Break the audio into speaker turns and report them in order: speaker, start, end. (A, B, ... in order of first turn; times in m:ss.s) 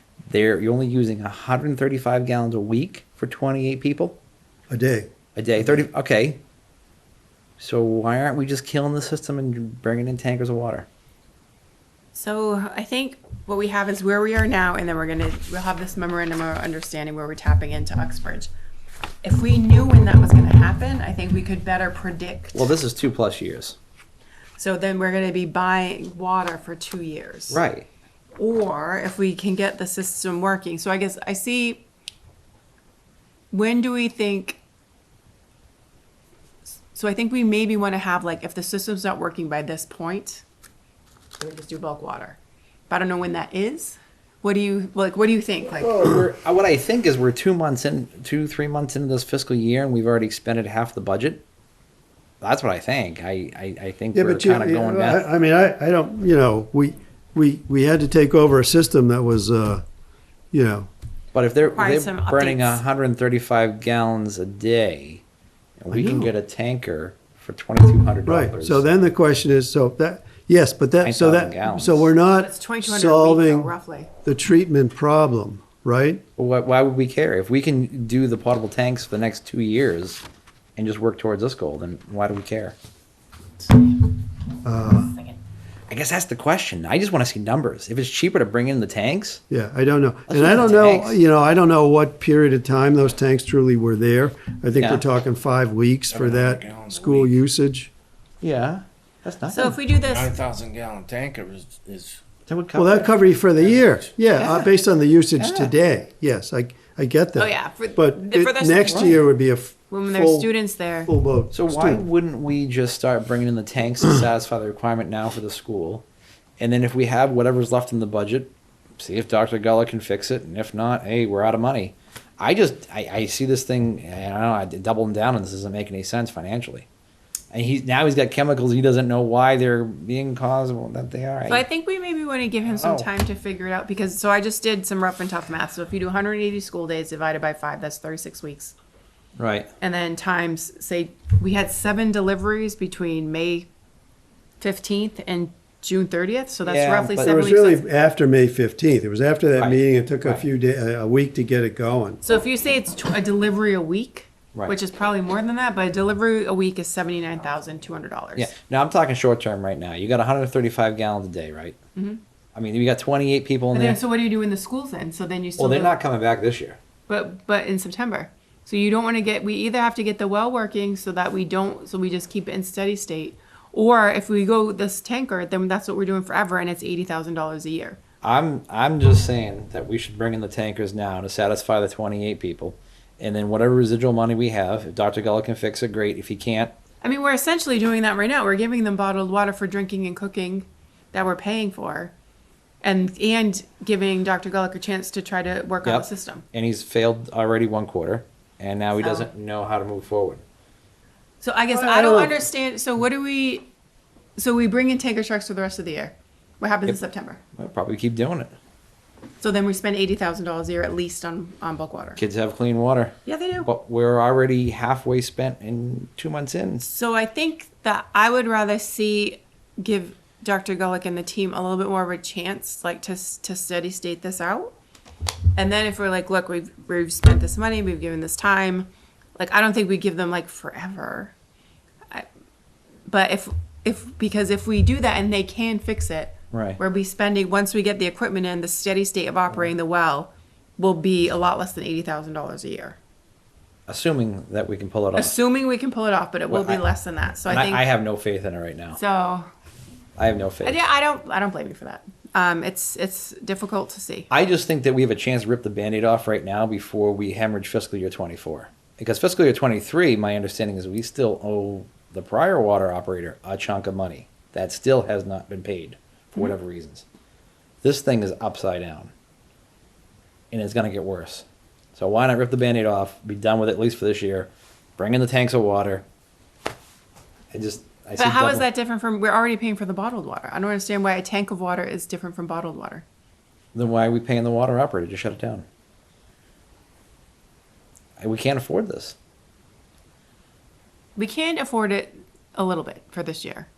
0:00.3-0:04.2 A
0:04.7-0:05.1 B
0:05.4-0:06.4 A
0:07.6-0:10.9 A
0:12.1-0:18.5 C
0:19.2-0:22.7 C
0:22.6-0:23.8 A
0:24.6-0:27.6 C
0:27.5-0:27.9 A
0:28.4-0:31.8 C
0:33.5-0:34.6 C
0:36.9-0:40.4 C
0:41.4-0:42.4 C
0:42.9-0:46.2 C
0:45.8-0:51.4 A
0:52.4-0:55.3 A
0:54.1-0:59.8 B
1:00.5-1:00.9 B
1:01.3-1:05.2 A
1:01.7-1:02.8 C
1:05.8-1:09.0 A
1:05.9-1:06.3 B
1:08.3-1:13.7 B
1:11.0-1:12.1 A
1:12.3-1:14.1 C
1:14.2-1:16.2 B
1:16.4-1:20.2 A
1:20.8-1:22.8 A
1:24.6-1:25.1 B
1:25.9-1:29.4 A
1:29.5-1:37.9 B
1:30.3-1:31.2 A
1:34.8-1:35.0 A
1:36.1-1:37.3 D
1:38.4-1:39.8 A
1:39.5-1:40.3 C
1:40.0-1:42.2 D
1:42.5-1:43.1 A
1:42.8-1:50.5 B
1:43.6-1:44.0 D
1:44.4-1:44.7 A
1:45.4-1:45.7 A
1:47.4-1:49.2 C
1:48.9-1:49.2 A
1:49.9-1:51.1 C
1:51.1-1:52.0 B
1:51.5-1:56.1 A
1:56.6-2:06.9 A
2:07.5-2:11.6 A
2:11.5-2:18.7 C
2:12.7-2:13.1 A
2:19.4-2:19.7 A
2:19.8-2:23.7 C
2:24.6-2:27.8 C
2:26.6-2:27.4 A
2:27.2-2:32.2 B
2:29.6-2:30.4 A
2:32.2-2:38.5 C
2:38.4-2:41.8 A
2:42.6-2:44.0 A
2:43.7-2:46.0 C
2:45.6-2:46.8 A
2:47.1-2:58.0 C
2:58.2-3:06.7 A
3:07.0-3:12.1 C
3:12.8-3:16.4 C
3:15.8-3:20.4 A
3:19.0-3:19.3 C
3:21.4-3:23.7 C
3:21.7-3:22.4 B
3:24.4-3:27.4 C
3:27.6-3:28.5 A
3:29.4-3:32.2 C
3:32.2-3:36.9 A
3:33.2-3:33.7 C
3:36.8-3:44.7 C
3:45.6-3:51.3 C
3:53.1-4:03.0 C
3:56.5-3:56.8 A
4:03.9-4:05.4 A
4:05.1-4:07.8 C
4:06.5-4:06.8 A
4:07.5-4:09.0 A
4:09.0-4:09.5 C
4:10.2-4:10.8 A
4:10.6-4:14.3 C
4:14.3-4:27.0 A
4:27.8-4:29.1 A
4:30.5-4:36.0 A
4:37.5-4:38.7 A
4:38.2-4:43.0 C
4:43.7-4:45.7 A
4:48.2-4:49.2 A
4:51.2-4:53.7 C